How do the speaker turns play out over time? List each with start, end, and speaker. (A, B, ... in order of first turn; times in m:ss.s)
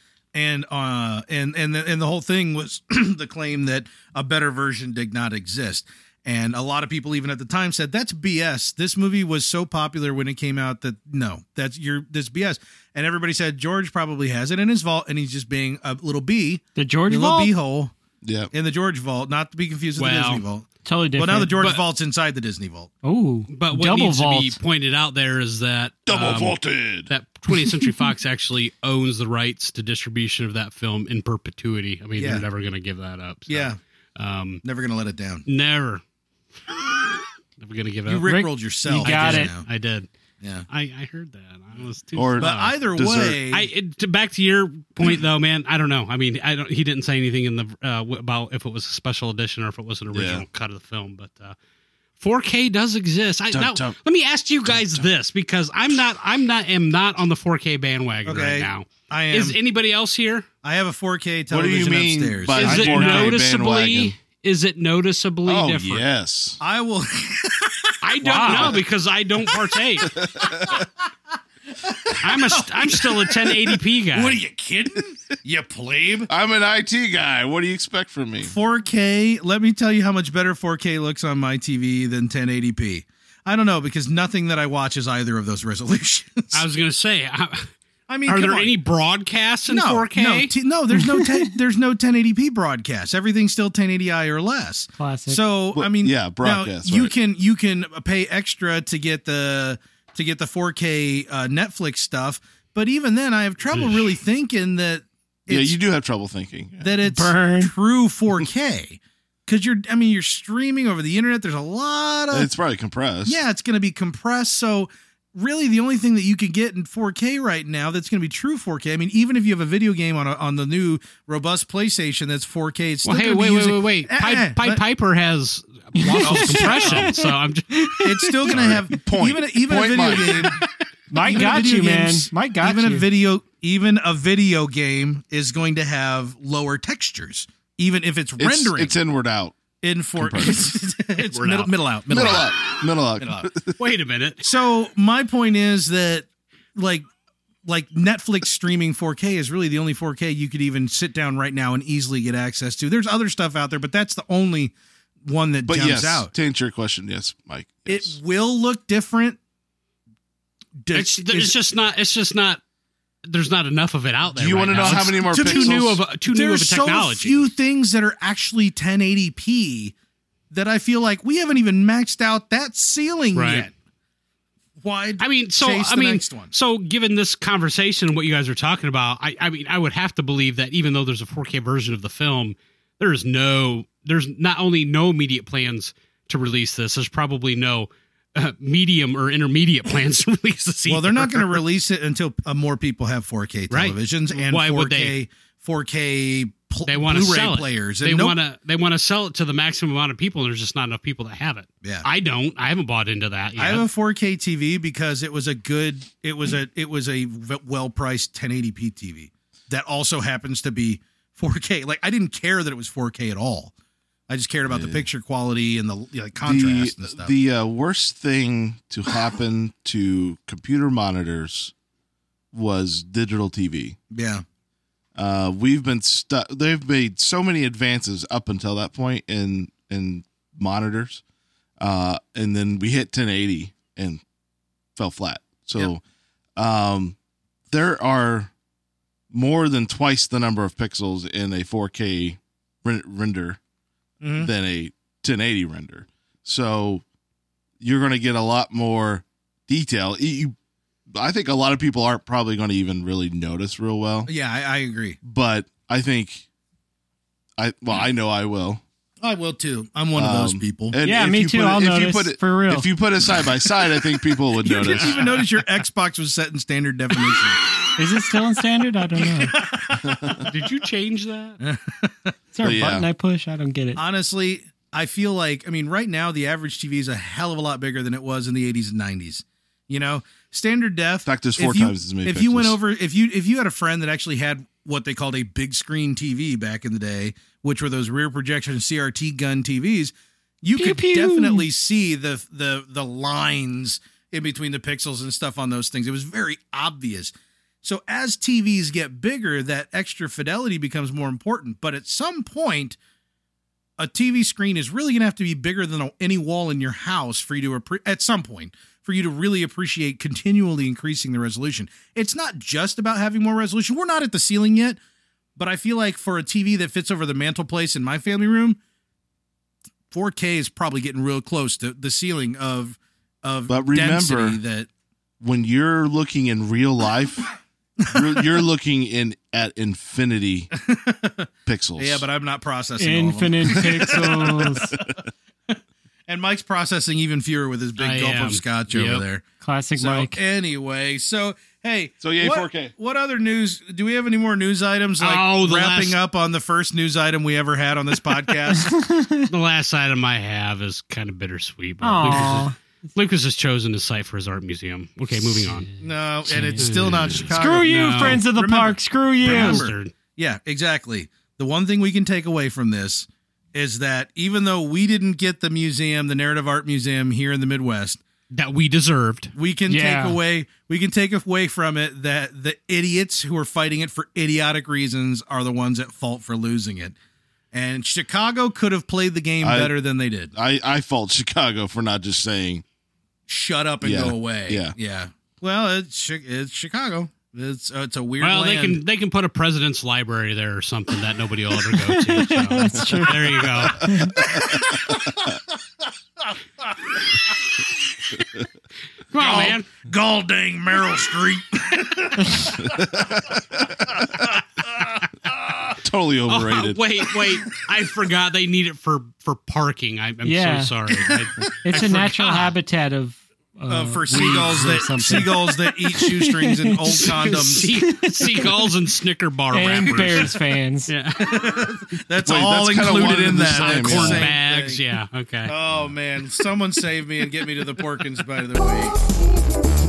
0:00.3-0:17.9 A
0:16.7-0:17.5 B
0:18.2-0:18.5 C
0:18.5-0:22.9 A
0:20.0-0:20.4 D
0:20.8-0:21.6 B
0:21.5-0:21.8 D
0:23.0-0:24.6 B
0:23.5-0:34.6 D
0:26.1-0:27.1 C
0:32.2-0:32.4 A
0:33.5-0:33.8 A
0:34.6-0:35.4 A
0:35.5-0:36.0 D
0:37.6-0:38.3 D
0:38.0-0:39.6 A
0:38.2-0:39.5 B
0:39.0-0:40.1 D
0:40.4-0:40.6 A
0:40.7-0:42.8 D
0:42.2-0:43.4 C
0:42.4-0:43.7 A
0:43.5-0:51.5 D
0:50.1-0:50.4 C
0:52.2-1:00.5 D
0:53.5-0:54.0 C
0:54.7-0:55.1 C
0:58.2-0:59.6 A
1:00.6-1:02.8 A
1:01.5-1:04.1 C
1:02.5-1:06.0 D
1:02.6-1:03.4 B
1:05.4-1:06.6 C
1:06.6-1:08.8 A
1:08.0-1:10.2 D
1:08.2-1:08.8 B
1:08.4-1:08.8 C
1:10.0-1:10.9 A
1:10.0-1:10.8 C
1:11.8-1:16.3 A
1:12.2-1:14.4 D
1:16.3-1:18.5 C
1:18.4-1:26.6 A
1:26.5-1:27.7 D
1:28.1-1:28.8 A
1:28.2-1:30.5 D
1:29.7-1:45.7 A
1:31.1-1:31.5 B
1:35.0-1:35.4 B
1:35.7-1:37.1 C
1:45.5-1:46.9 C
1:46.8-1:52.5 A
1:47.0-1:47.7 B
1:52.3-1:53.4 C
1:53.2-2:04.8 A
2:03.0-2:07.9 D
2:05.9-2:08.5 B
2:06.2-2:07.2 A
2:08.0-2:10.6 A
2:08.5-2:10.5 C
2:11.1-2:13.1 B
2:11.2-2:18.9 A
2:18.4-2:19.6 C
2:19.8-2:22.6 A
2:20.2-2:20.6 C
2:21.2-2:21.7 D
2:22.1-2:23.8 C
2:23.2-2:23.5 A
2:23.8-2:24.4 D
2:24.4-2:27.0 A
2:27.6-2:36.3 A
2:35.6-2:38.2 C
2:37.9-2:39.4 A
2:40.8-2:41.5 A
2:40.9-2:42.6 D
2:43.2-2:47.4 D
2:44.3-2:46.0 C
2:44.7-2:49.9 A
2:50.5-2:53.7 A
2:53.3-2:53.7 D
2:54.8-2:56.5 A
2:55.2-3:11.6 D
3:10.9-3:18.4 A
3:13.7-3:15.1 D
3:16.8-3:23.8 D
3:23.6-3:33.7 A
3:34.3-3:37.3 A
3:34.7-3:35.0 C
3:36.4-3:41.7 C
3:42.5-3:44.0 C
3:44.1-3:44.4 A
3:45.1-3:51.2 C
3:51.8-3:54.2 C
3:55.0-3:56.0 C
3:56.6-3:57.2 C
3:57.7-3:58.5 C
3:59.3-4:03.6 C
4:04.2-4:04.5 A
4:04.4-4:07.0 C
4:07.8-4:10.5 C
4:11.1-4:14.3 C
4:14.3-4:15.2 A
4:15.2-4:16.4 C
4:17.6-4:18.8 C
4:19.2-4:21.0 A
4:20.1-4:25.4 C
4:21.0-4:22.9 B
4:24.6-4:27.6 A
4:28.0-4:29.6 B
4:29.2-4:30.5 A
4:30.0-4:30.4 C
4:30.3-4:31.6 D
4:31.6-4:32.3 A
4:32.5-4:34.0 B
4:32.6-4:33.0 C
4:34.0-5:03.0 A
4:41.2-4:42.8 C
4:50.7-4:51.7 B
5:04.0-5:15.0 A
5:15.6-5:18.8 A
5:20.1-5:24.9 A
5:23.7-5:24.6 C
5:25.4-5:27.5 C
5:28.0-5:30.7 C
5:28.1-5:28.4 A
5:30.7-5:35.1 A
5:31.6-5:32.2 C
5:33.0-5:34.9 B
5:35.7-5:39.4 A
5:38.0-5:39.2 D
5:39.6-5:40.4 B
5:40.0-5:49.0 A
5:42.2-5:42.9 C
5:45.2-5:46.2 D
5:48.7-5:49.5 B
5:49.5-5:55.9 D
5:52.0-5:52.8 B
5:55.4-5:56.9 B
5:56.0-6:08.2 A
5:56.7-5:58.4 D
5:57.4-5:59.8 B
5:59.4-6:00.1 D
6:08.5-6:09.5 D
6:09.5-6:17.2 A
6:09.9-6:10.4 B
6:17.7-6:20.5 A
6:19.6-6:19.9 C
6:20.5-6:22.8 C
6:23.5-6:29.0 A
6:24.0-6:24.9 C
6:28.4-6:34.3 D
6:32.0-6:34.4 B
6:34.1-6:35.6 A
6:39.3-6:39.9 D
6:39.3-6:43.1 A
6:42.4-6:42.6 B
6:42.8-6:44.0 C
6:44.1-6:45.9 A
6:46.0-6:47.0 C
6:46.5-6:52.7 D
6:50.4-6:50.9 B
6:51.8-6:58.9 B
6:53.9-6:57.9 A
6:57.2-7:01.8 D
6:59.7-7:01.1 B
7:00.0-7:00.5 A
7:01.4-7:05.0 A
7:02.4-7:04.5 C
7:03.3-7:05.7 D
7:05.6-7:09.2 A